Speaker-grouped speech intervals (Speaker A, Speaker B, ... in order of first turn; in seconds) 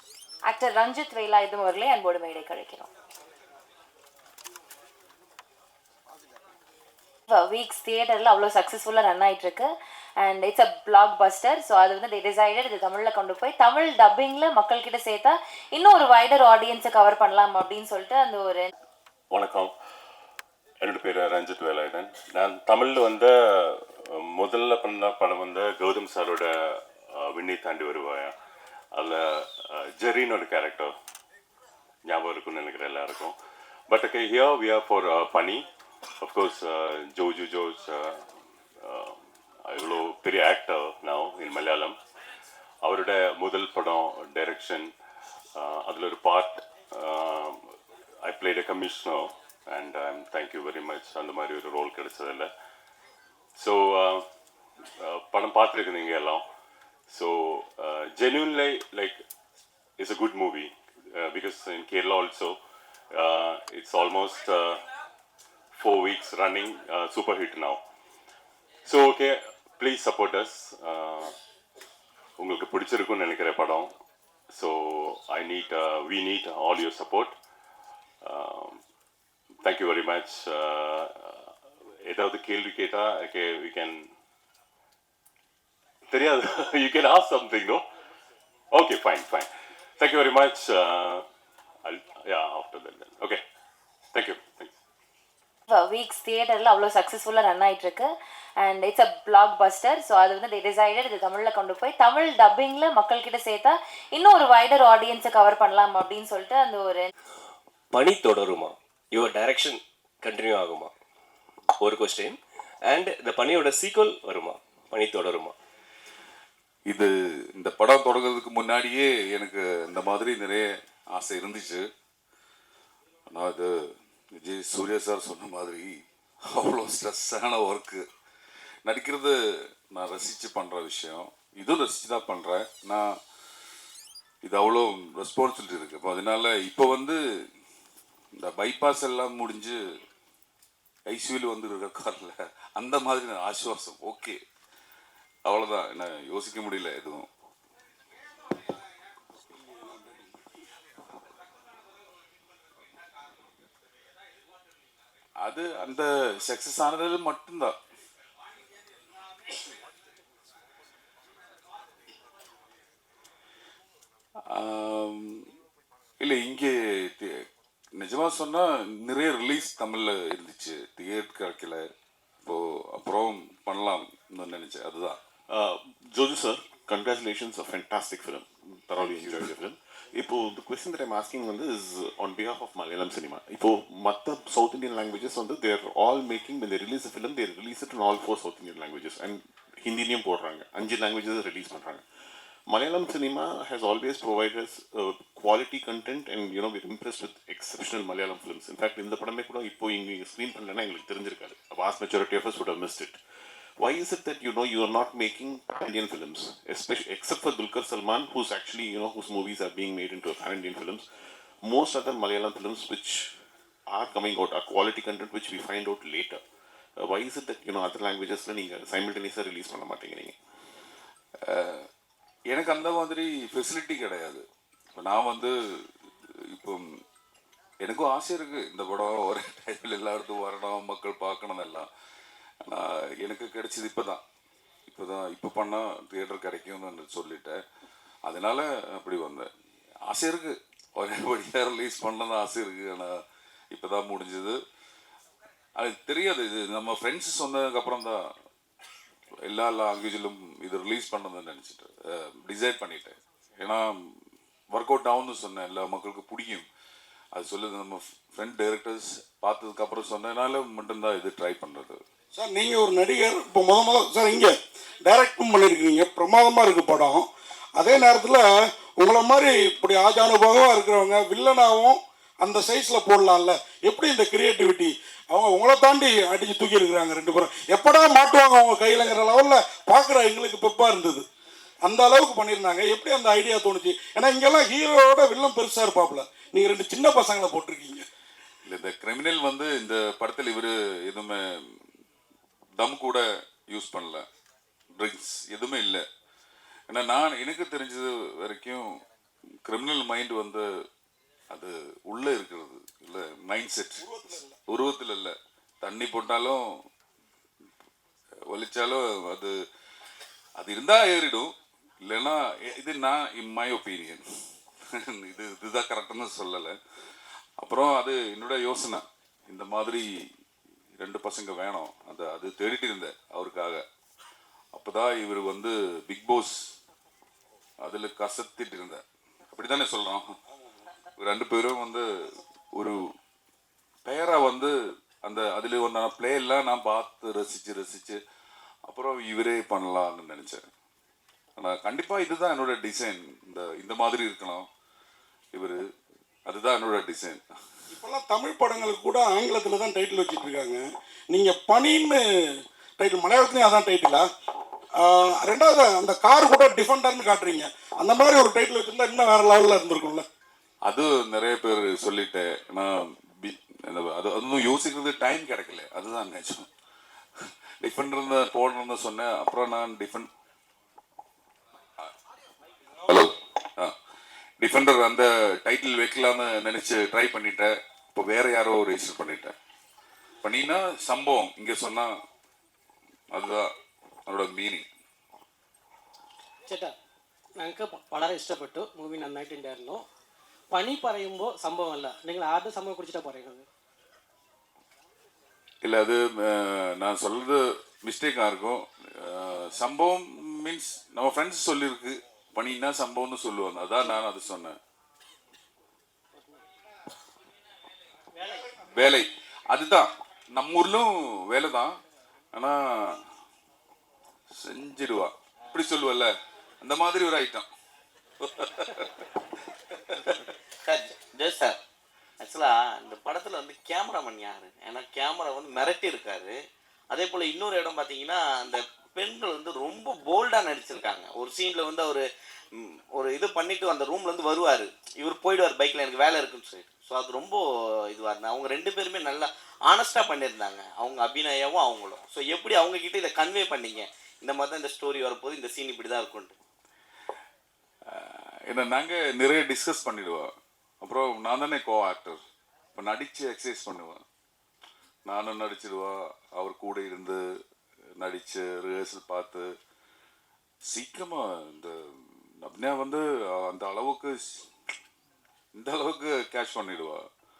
Speaker A: 0.5-2.9, 7.3-18.7, 95.7-107.1
Speaker B: 19.3-19.7, 20.8-28.3, 28.9-30.9, 32.0-33.3, 33.9-35.6, 36.2-38.2, 38.8-42.0, 42.8-44.9, 45.6-47.6, 48.2-52.5, 53.6-54.2, 54.9-56.4, 57.1-59.2, 60.0-62.6, 63.1-64.8, 65.7-67.8, 68.8-71.3, 72.4-73.9, 74.5-77.3, 78.2-78.8, 79.6-84.1, 86.1-87.8, 88.7-91.2, 91.8-93.4, 94.1-94.8
Speaker C: 107.9-110.9, 111.8-112.3, 112.9-115.5
Speaker D: 116.9-121.9, 123.3-123.7, 124.3-128.1, 128.8-129.3, 129.9-133.2, 134.4-137.2, 138.3-140.0, 141.1-144.4, 145.4-147.3, 155.4-157.8, 164.4-165.5, 166.2-171.8, 172.4-175.2, 179.1-179.5, 221.4-221.9, 222.5-224.4, 224.9-225.9, 226.4-226.9, 227.8-231.9, 232.6-234.2, 234.9-237.6, 238.2-239.5, 240.1-244.6, 245.8-248.2, 249.4-254.2, 254.7-256.6, 257.3-262.0, 288.6-291.8, 292.8-294.3, 294.9-296.1, 296.9-298.9, 299.6-300.7, 301.5-304.1, 304.7-306.6, 308.5-309.6, 310.6-314.2, 314.9-316.8, 317.6-320.0, 321.0-323.8, 324.7-326.7, 327.8-330.4, 331.2-333.0, 334.0-338.2, 338.8-340.6, 341.6-344.7, 345.5-345.8, 346.4-347.4, 360.9-366.7, 367.4-370.3, 373.1-373.9, 374.6-379.5, 380.4-382.2, 383.3-383.7, 384.3-384.9, 395.8-404.8, 408.9-412.0, 412.5-413.3, 414.6-417.7, 418.4-419.2, 420.1-420.5, 448.1-452.4, 452.9-454.2, 455.2-457.4, 458.2-459.7, 460.9-464.7, 465.7-467.3
Speaker E: 149.7-150.3, 262.3-267.3, 267.8-268.4, 269.0-281.2, 281.8-288.0, 304.0-304.6, 347.9-352.2, 353.0-354.3, 355.0-360.2
Speaker F: 175.5-192.0, 192.7-203.2, 203.8-211.0, 211.6-213.3, 213.9-216.4, 217.0-220.4
Speaker G: 386.7-386.9, 387.6-390.0, 390.7-393.6, 408.4-408.6
Speaker H: 420.8-421.8, 422.4-426.6, 427.1-446.5